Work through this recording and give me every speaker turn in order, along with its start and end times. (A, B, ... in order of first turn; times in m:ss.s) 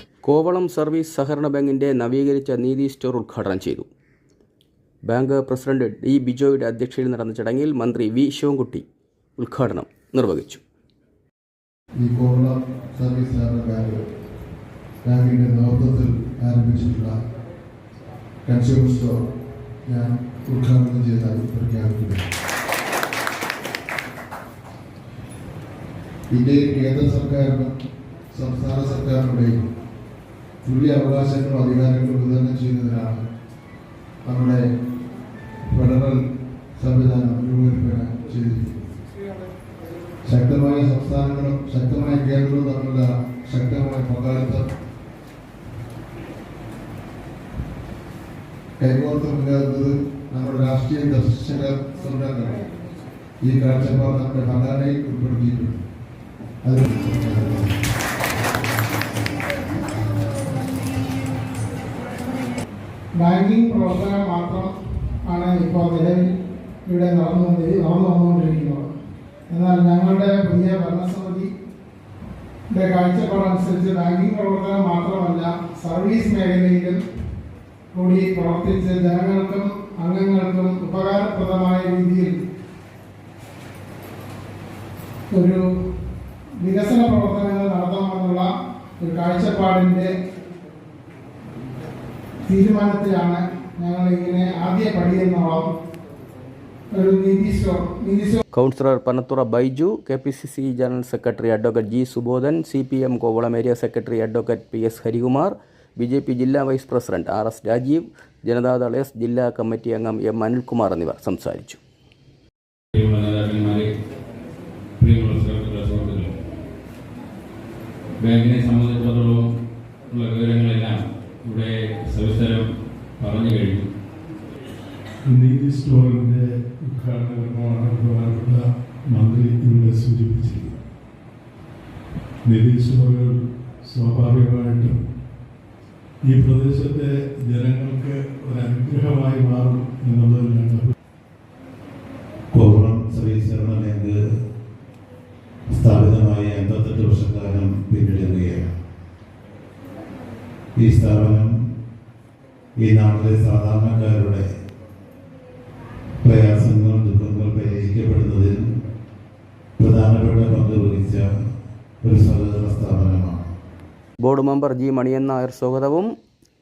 0:00.2-0:03.9 A
0:05.0-0:08.8 A
0:09.4-0:10.6 A
0:12.0-0:14.0 B
0:15.0-0:17.1 B
0:18.4-0:19.2 B
0:19.8-0:22.2 B
0:26.3-0:27.7 B
0:28.3-0:29.6 B
0:30.6-0:33.1 B
0:34.2-0:34.6 B
0:35.6-0:36.2 B
0:36.8-0:38.7 B
0:40.2-0:44.7 B
0:48.8-0:52.6 B
0:53.4-0:55.8 B
0:56.6-0:57.7 B
1:03.2-1:06.3 C
1:06.8-1:08.9 C
1:09.5-1:11.5 C
1:12.7-1:17.0 C
1:17.9-1:22.4 C
1:25.3-1:25.6 C
1:26.6-1:28.5 C
1:29.0-1:30.1 C
1:32.4-1:35.7 C
1:36.9-1:38.4 C
1:38.5-1:51.8 A
1:52.9-1:53.9 D
1:55.0-1:56.3 D
1:58.2-1:59.5 D
2:00.1-2:03.9 D
2:05.2-2:10.7 E
2:12.4-2:15.0 E
2:16.2-2:20.9 E
2:22.5-2:24.2 F
2:25.7-2:28.7 F
2:30.8-2:31.5 F
2:32.8-2:34.4 F
2:36.2-2:38.6 F
2:39.8-2:41.3 F
2:42.0-2:43.4 F
2:44.2-2:46.1 A